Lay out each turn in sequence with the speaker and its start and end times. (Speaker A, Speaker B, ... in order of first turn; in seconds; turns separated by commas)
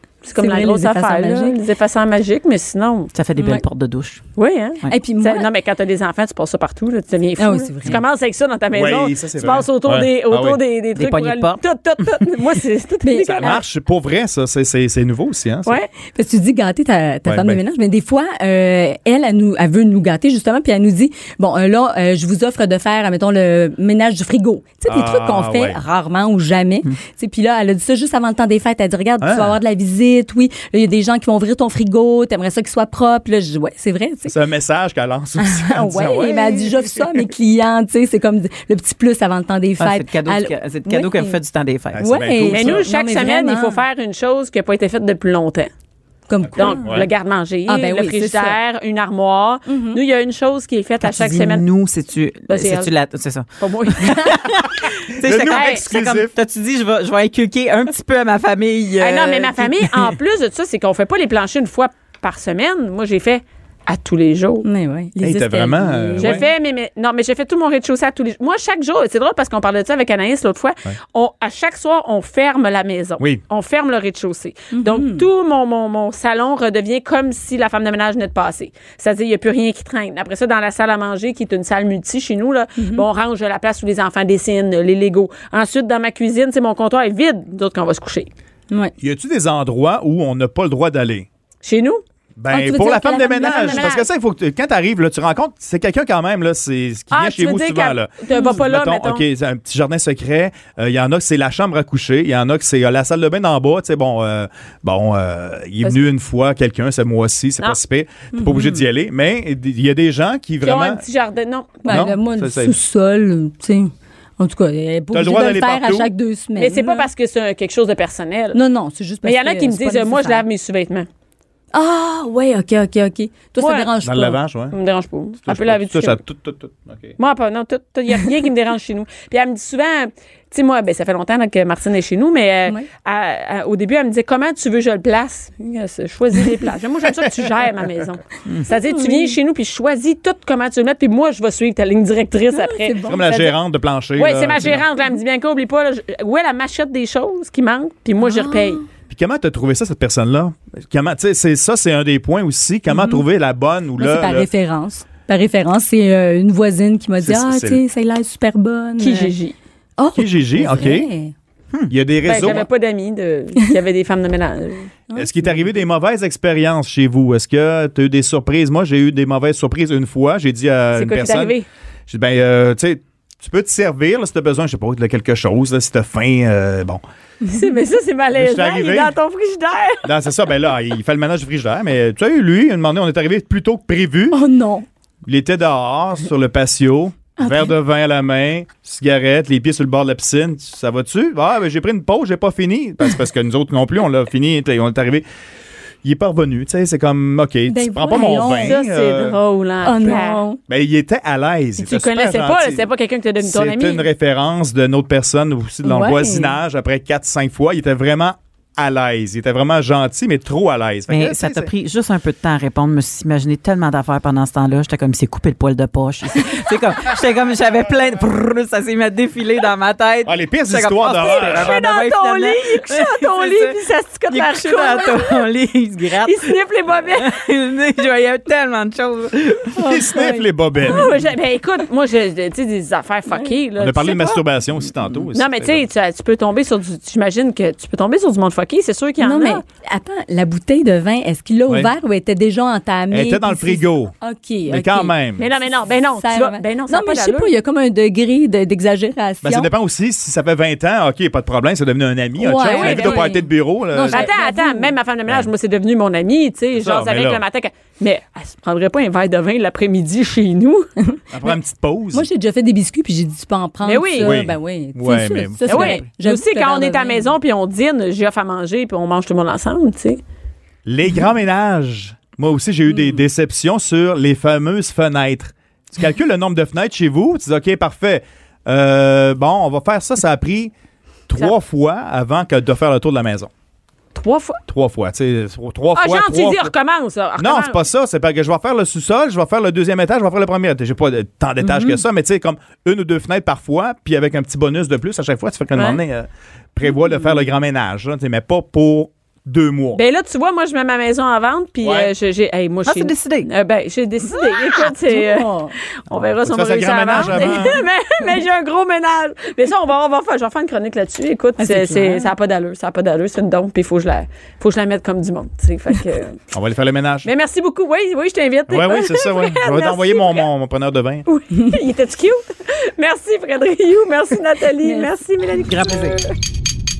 Speaker A: 0.2-3.1, Speaker B: 0.4-1.5, Speaker C: 3.1-4.2, Speaker B: 3.4-3.6, Speaker A: 4.3-13.6, Speaker B: 4.9-5.5, Speaker B: 7.4-8.0, Speaker D: 8.7-10.6, Speaker C: 10.9-11.6, Speaker B: 13.0-13.6, Speaker D: 13.3-15.8, Speaker B: 16.0-34.3, Speaker D: 17.2-17.6, Speaker D: 24.8-25.8, Speaker D: 29.2-29.6, Speaker D: 34.3-37.3, Speaker B: 35.4-41.4, Speaker C: 39.8-42.1, Speaker D: 41.9-42.9, Speaker B: 42.0-43.8, Speaker A: 42.5-45.7, Speaker B: 46.3-47.0, Speaker A: 46.5-51.6, Speaker D: 46.8-47.1, Speaker B: 47.7-48.6, Speaker B: 49.7-50.0, Speaker C: 51.0-60.1, Speaker A: 52.5-52.9, Speaker A: 53.6-54.3, Speaker D: 55.1-56.3, Speaker A: 55.5-55.9, Speaker A: 59.0-64.7, Speaker B: 64.6-66.5, Speaker D: 65.2-66.4, Speaker A: 66.2-88.3, Speaker B: 74.8-75.2, Speaker B: 82.8-83.0, Speaker D: 89.0-91.3, Speaker A: 91.6-92.0, Speaker D: 92.4-111.0, Speaker B: 92.5-93.9, Speaker A: 93.2-94.0, Speaker A: 97.1-99.2, Speaker B: 98.3-98.6, Speaker B: 108.3-108.6, Speaker A: 110.6-112.1, Speaker B: 111.8-117.1, Speaker D: 111.9-112.8, Speaker D: 115.1-116.1, Speaker A: 116.6-118.6, Speaker B: 118.5-120.4, Speaker A: 119.2-121.1, Speaker B: 121.7-124.4, Speaker A: 123.6-123.9, Speaker D: 124.0-124.8, Speaker A: 124.7-126.2, Speaker D: 125.5-127.2, Speaker A: 127.2-143.5, Speaker B: 138.7-139.3, Speaker B: 142.6-143.2, Speaker D: 143.0-144.8, Speaker A: 144.2-148.8, Speaker B: 148.2-148.8, Speaker D: 149.1-154.5, Speaker B: 152.9-153.2, Speaker B: 154.0-159.3, Speaker D: 157.2-157.8, Speaker A: 159.0-159.5, Speaker B: 160.0-161.3, Speaker D: 160.1-161.1, Speaker D: 161.9-162.7, Speaker A: 162.2-164.9, Speaker D: 165.1-171.5, Speaker A: 170.9-171.7, Speaker D: 172.1-177.0, Speaker A: 177.5-180.1, Speaker D: 178.3-179.2, Speaker D: 180.0-184.4, Speaker B: 184.3-184.8, Speaker D: 185.2-195.2, Speaker B: 187.4-187.7, Speaker D: 196.0-199.4, Speaker B: 197.7-198.8, Speaker A: 198.2-200.4, Speaker B: 199.8-200.6, Speaker D: 200.7-202.9, Speaker A: 201.8-204.1, Speaker D: 203.4-211.7, Speaker B: 205.8-206.5, Speaker C: 211.1-223.8, Speaker D: 220.2-221.7, Speaker A: 221.3-225.4, Speaker C: 224.3-226.5, Speaker A: 226.2-227.3, Speaker C: 227.1-229.8, Speaker D: 229.8-231.1, Speaker B: 229.8-230.4, Speaker A: 230.8-234.4, Speaker D: 233.8-235.8, Speaker A: 235.3-239.6, Speaker B: 239.2-245.4, Speaker D: 243.1-244.1, Speaker D: 244.7-245.4, Speaker A: 245.4-247.5, Speaker B: 246.2-249.7, Speaker D: 249.4-254.3, Speaker B: 252.4-254.9, Speaker A: 252.6-253.3, Speaker A: 254.1-260.9, Speaker D: 256.8-257.4, Speaker B: 261.1-261.5, Speaker D: 261.3-262.3, Speaker B: 262.1-267.3, Speaker A: 263.8-264.4, Speaker D: 264.2-266.1, Speaker A: 265.6-270.2, Speaker D: 270.9-280.7, Speaker D: 281.3-283.5, Speaker A: 284.1-284.6, Speaker D: 284.7-286.7, Speaker A: 285.9-287.8, Speaker D: 287.4-300.0, Speaker B: 291.6-292.0, Speaker A: 295.7-296.0, Speaker A: 299.9-316.4, Speaker D: 301.8-302.1, Speaker C: 302.9-303.5, Speaker B: 304.8-305.7, Speaker D: 306.4-307.8, Speaker B: 307.2-307.8, Speaker B: 311.6-312.3, Speaker D: 316.5-317.3, Speaker A: 317.2-320.4, Speaker D: 318.7-321.2, Speaker A: 321.2-326.3, Speaker B: 324.8-325.1, Speaker C: 325.6-326.2